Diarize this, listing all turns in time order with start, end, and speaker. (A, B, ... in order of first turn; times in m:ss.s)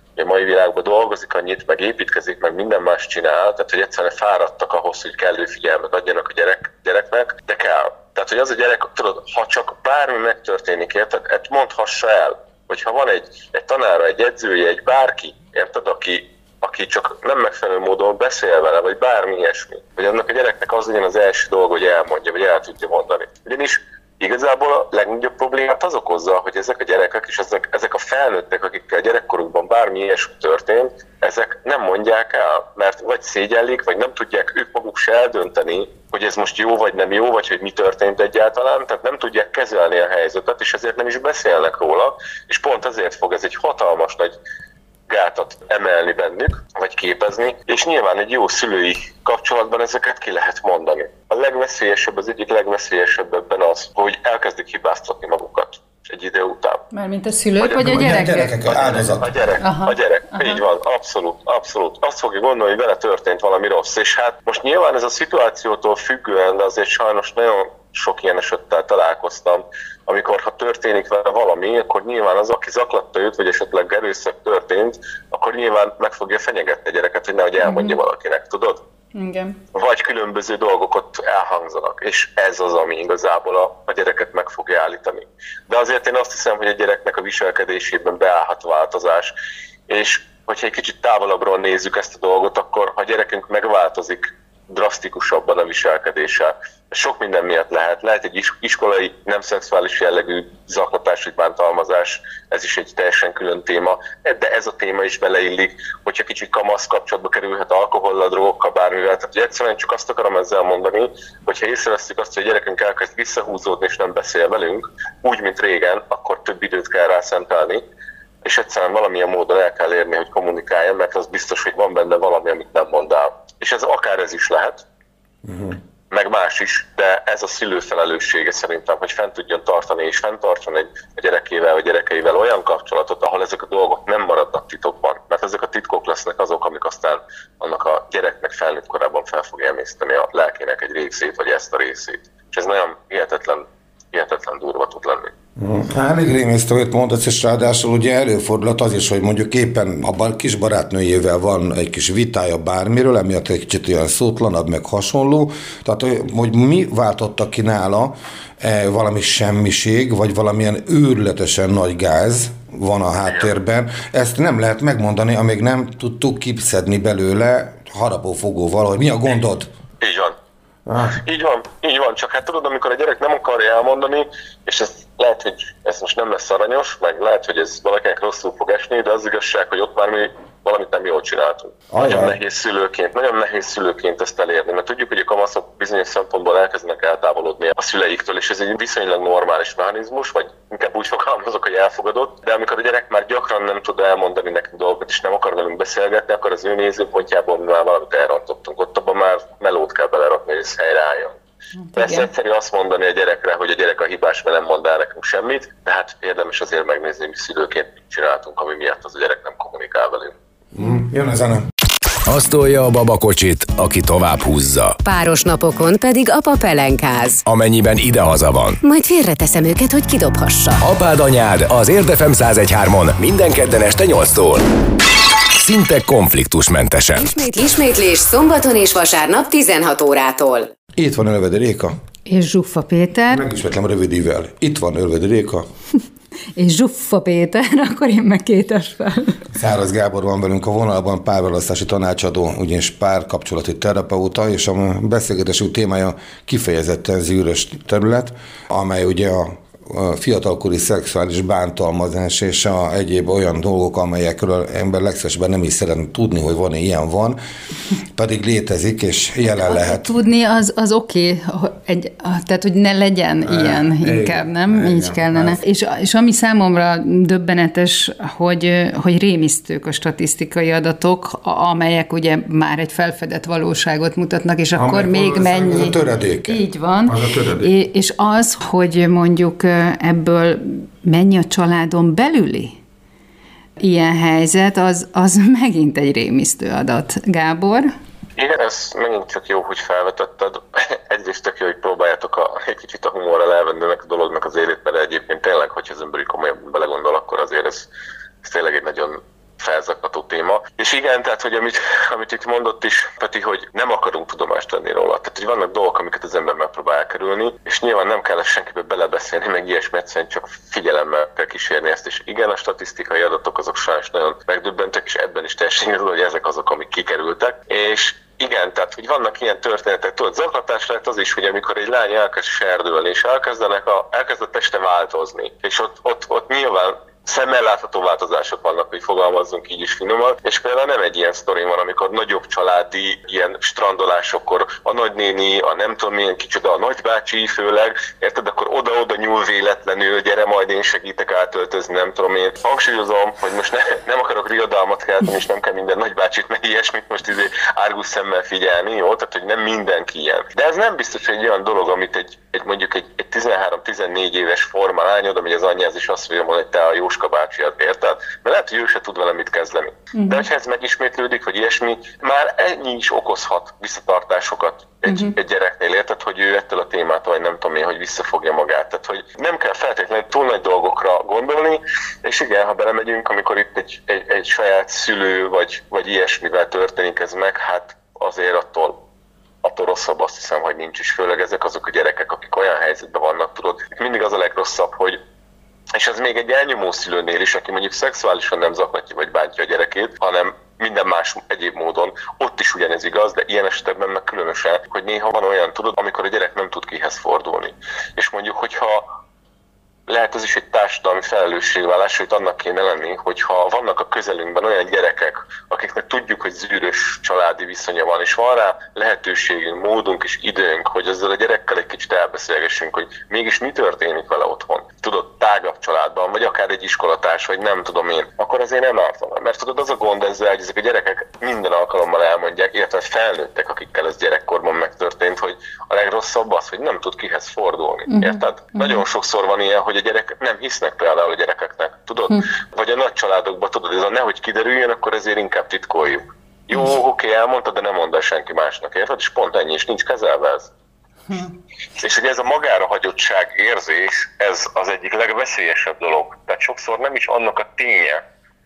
0:00.2-0:44.4 A
0:45.1-0:56.8 A
0:56.9-0:58.6 B
0:57.6-1:18.8 A
0:57.8-0:59.3 C
0:59.6-1:00.6 B
1:17.6-1:18.0 B
1:19.1-1:19.6 B
1:19.7-1:29.3 A
1:29.9-1:57.8 A
1:58.4-2:04.8 A
2:05.4-2:05.8 C
2:06.1-2:25.3 A
2:25.6-2:49.7 C
2:50.0-2:50.4 A
2:50.8-2:51.2 C
2:51.0-3:21.4 A
3:01.9-3:02.4 C
3:21.8-3:22.3 B
3:22.0-3:30.3 A
3:30.7-3:31.7 C
3:32.3-3:35.0 D
3:35.0-3:37.4 E
3:37.4-3:38.8 D
3:38.8-3:40.8 E
3:40.8-3:44.6 D
3:45.5-3:47.3 D
3:47.2-3:50.7 E
3:51.0-3:51.9 C
3:52.2-3:53.4 B
3:53.3-3:55.7 C
3:56.6-3:59.5 B
3:59.5-4:17.4 C
4:18.1-4:20.1 C
4:19.6-4:42.8 B
4:23.4-4:25.6 C
4:34.8-4:37.7 C
4:43.8-4:47.9 B
4:48.4-4:57.9 A
4:58.4-6:19.0 A
6:00.1-6:00.5 B
6:05.0-6:05.4 B
6:19.6-6:25.2 A
6:26.0-6:39.0 A
6:40.1-7:20.7 A
7:08.1-7:09.0 B
7:21.3-7:21.5 B
7:22.0-7:28.2 A